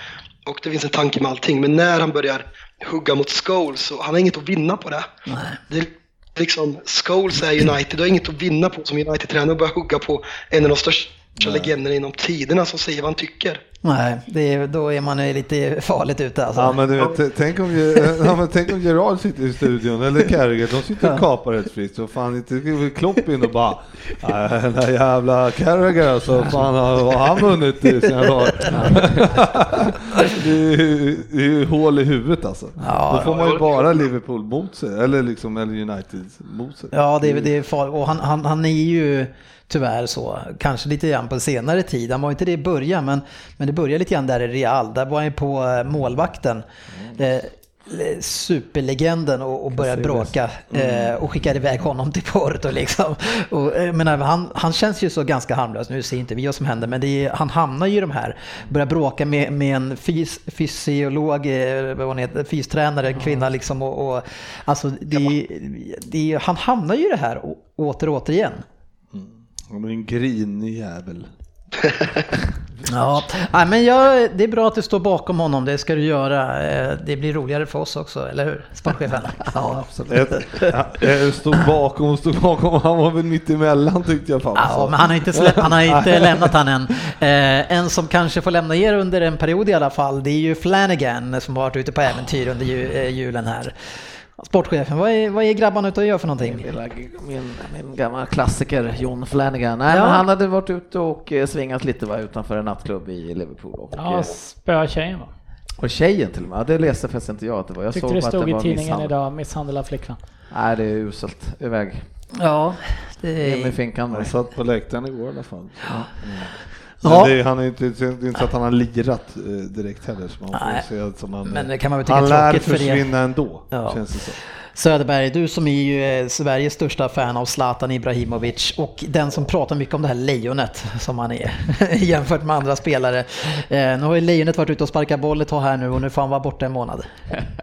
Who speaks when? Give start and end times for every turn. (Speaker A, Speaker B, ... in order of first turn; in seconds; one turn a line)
Speaker A: 0.5-5.1
Speaker B: 5.3-5.6
Speaker A: 5.7-13.6
Speaker C: 11.4-11.7
Speaker B: 13.8-17.1
Speaker C: 16.5-37.5
Speaker B: 28.7-29.0
Speaker B: 32.8-33.4
Speaker A: 33.3-33.8
Speaker B: 36.9-46.6
Speaker B: 47.1-68.6
Speaker D: 49.8-50.3
Speaker C: 50.7-51.1
Speaker C: 69.1-71.3
Speaker B: 72.9-79.8
Speaker C: 80.0-86.5
Speaker B: 84.5-96.7
Speaker D: 96.4-104.3
Speaker B: 99.9-100.2
Speaker E: 103.9-105.3
Speaker D: 105.8-109.1
Speaker E: 107.9-110.2
Speaker D: 110.5-112.0
Speaker B: 112.3-113.8
Speaker D: 113.4-114.3
Speaker C: 114.1-124.4
Speaker B: 117.0-117.3
Speaker B: 120.5-120.8
Speaker B: 121.4-123.0
Speaker B: 123.7-137.1